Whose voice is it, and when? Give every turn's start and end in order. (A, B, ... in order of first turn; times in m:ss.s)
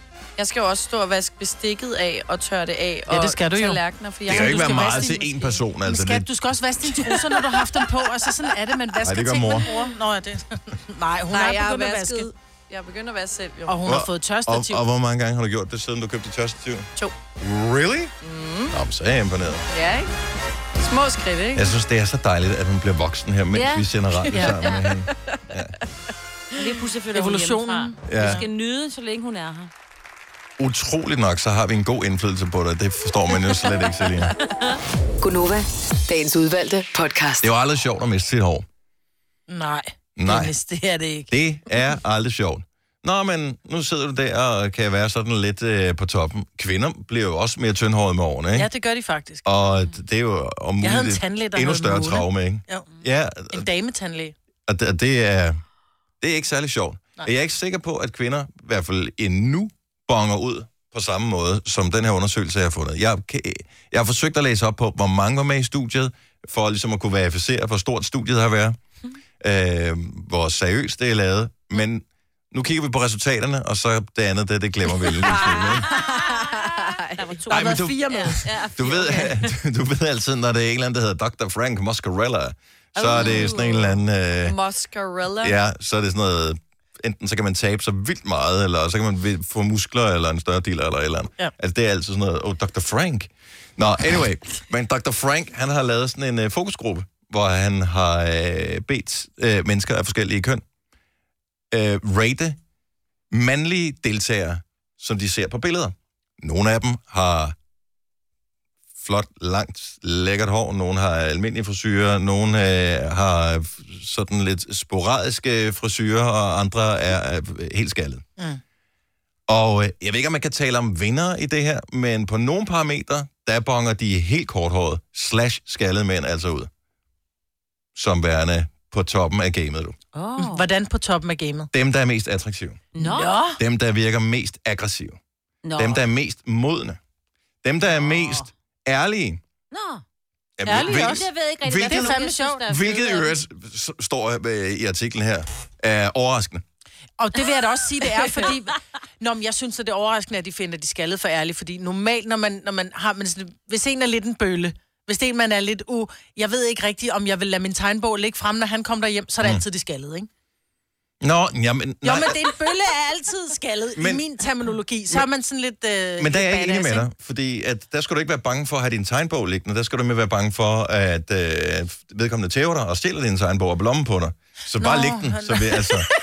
0:00.4-0:05.6 A
0:03.1-0:05.1 B
0:04.3-0:06.3 C
0:05.8-0:12.3 B
0:09.0-0:09.7 C
0:11.3-0:14.0 A
0:13.7-0:14.8 B
0:13.8-0:16.9 C
0:17.4-0:18.1 C
0:18.2-0:18.8 A
0:18.7-0:19.7 C
0:19.7-0:20.1 A
0:20.8-0:21.7 A
0:21.5-0:25.8 C
0:23.5-0:23.9 D
0:24.3-0:24.7 B
0:26.5-0:29.7 D
0:27.1-0:28.4 B
0:28.1-0:28.4 C
0:30.6-0:34.3 C
0:35.2-0:37.5 E
0:37.4-0:38.6 C
0:39.5-0:41.3 B
0:40.2-0:40.5 C
0:41.3-0:48.7 C
0:48.6-0:49.4 B
0:49.4-0:53.7 C
0:50.8-0:52.9 B
0:53.5-0:54.3 B
0:54.7-0:55.6 C
0:56.2-1:08.8 C
1:09.4-1:15.9 C
1:15.3-1:19.4 D
1:15.8-1:17.4 A
1:17.5-1:18.4 B
1:17.5-1:24.6 C
1:23.0-1:23.8 D
1:23.2-1:23.7 A
1:24.4-1:25.6 A
1:25.4-1:40.6 C
1:41.7-1:42.6 C
1:43.3-1:47.6 C
1:49.0-1:58.2 C
1:59.5-2:06.7 C
2:07.9-2:10.0 C
2:10.1-2:10.7 D
2:10.4-2:11.7 B
2:11.7-2:12.8 C
2:12.9-2:13.4 D
2:13.0-2:13.6 B
2:13.6-2:15.2 C
2:15.6-2:16.0 D
2:15.8-2:17.0 C
2:17.6-2:19.4 C
2:18.0-2:18.5 D
2:19.7-2:20.0 D
2:20.6-2:26.6 C
2:20.6-2:22.6 B
2:20.7-2:23.3 D
2:27.2-2:40.3 B
2:41.2-2:42.4 C
2:42.0-2:47.0 B
2:44.0-2:44.2 C
2:46.2-2:56.1 C
2:54.8-2:56.0 B